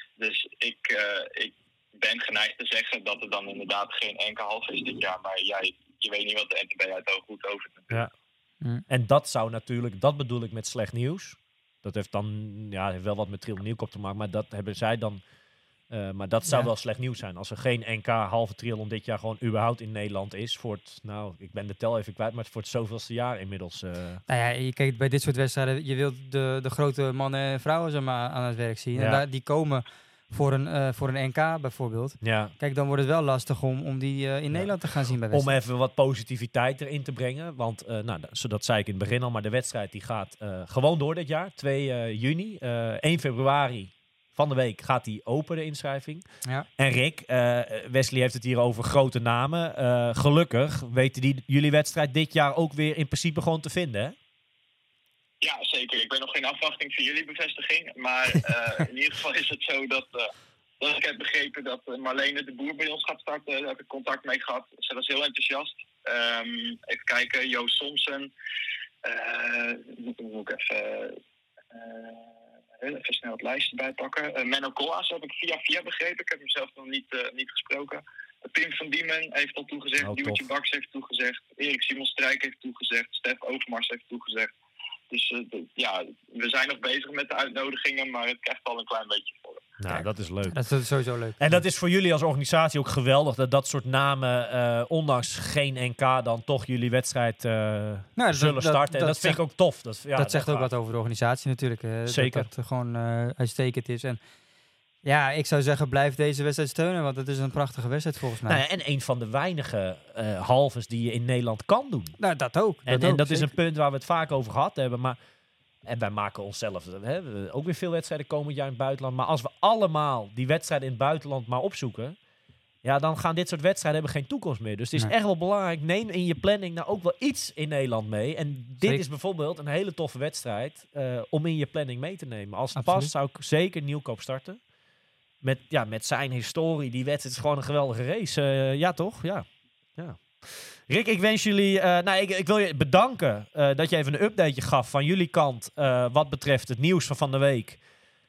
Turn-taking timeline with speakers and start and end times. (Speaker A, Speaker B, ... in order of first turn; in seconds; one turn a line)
Speaker A: 0.2-8.1
Speaker B: 8.9-15.2
Speaker B: 15.9-24.2
Speaker C: 24.3-35.5
Speaker B: 28.9-29.2
Speaker B: 32.2-32.5
Speaker B: 35.3-46.2
Speaker B: 46.8-54.2
Speaker A: 55.4-68.3
Speaker A: 69.0-71.2
Speaker A: 71.7-84.5
Speaker B: 80.0-80.5
Speaker A: 85.1-89.6
Speaker B: 89.8-90.6
Speaker C: 90.5-91.4
Speaker B: 91.4-100.7
Speaker C: 98.2-99.4
Speaker C: 100.2-104.2
Speaker B: 102.1-102.5
Speaker C: 105.0-108.6
Speaker B: 108.5-112.2
Speaker C: 112.2-113.5
Speaker B: 112.8-115.2
Speaker B: 115.8-122.2
Speaker B: 122.8-134.6
Speaker C: 132.8-133.1
Speaker B: 135.4-147.8